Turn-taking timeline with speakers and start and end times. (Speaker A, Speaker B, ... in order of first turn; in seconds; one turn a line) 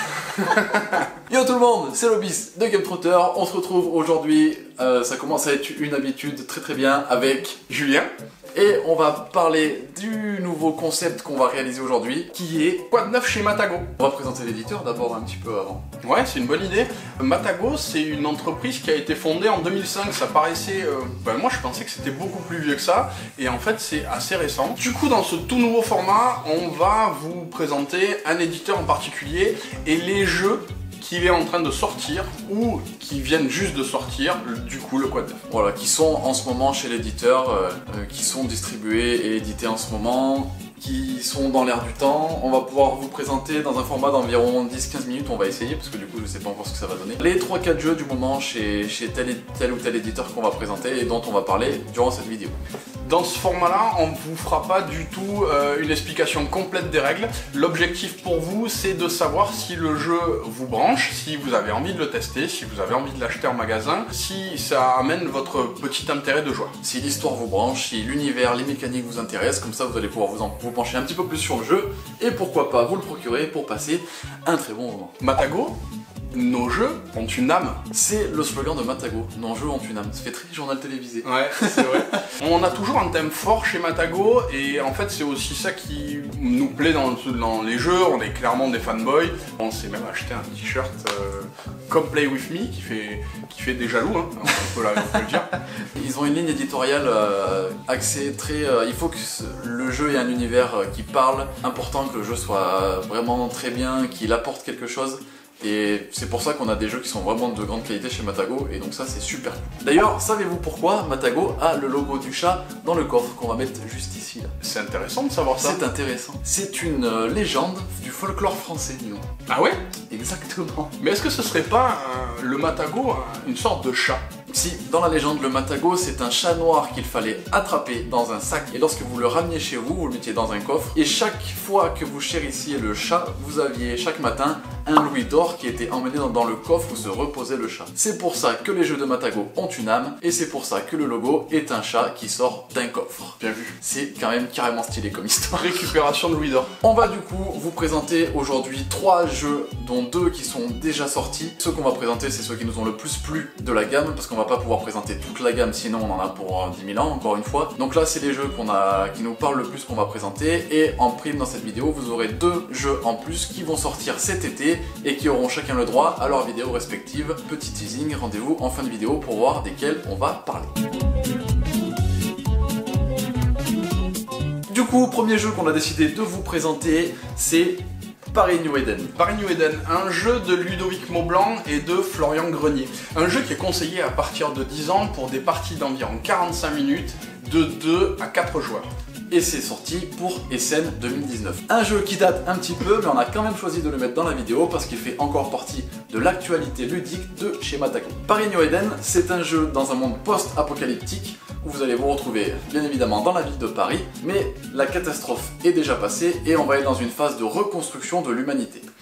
Speaker A: 0.3-1.0
Speaker B: 1.3-7.6
Speaker A: 7.7-8.1
Speaker B: 8.5-12.9
Speaker A: 12.9-13.9
Speaker B: 14.0-15.8
Speaker A: 16.0-35.4
Speaker B: 35.5-52.6
Speaker A: 53.0-66.7
Speaker B: 66.8-75.1
Speaker A: 75.2-75.8
Speaker A: 76.3-77.8
Speaker B: 77.9-82.2
Speaker A: 81.2-95.5
Speaker B: 95.9-114.5
Speaker A: 114.6-115.8
Speaker B: 115.6-119.2
Speaker A: 119.5-119.8
Speaker B: 120.1-120.9
Speaker A: 121.0-124.2
Speaker B: 124.5-145.9
Speaker A: 143.4-143.7
Speaker A: 145.6-146.7
Speaker B: 146.8-170.7
Speaker B: 174.7-179.1
Speaker A: 179.2-188.9
Speaker B: 189.3-208.8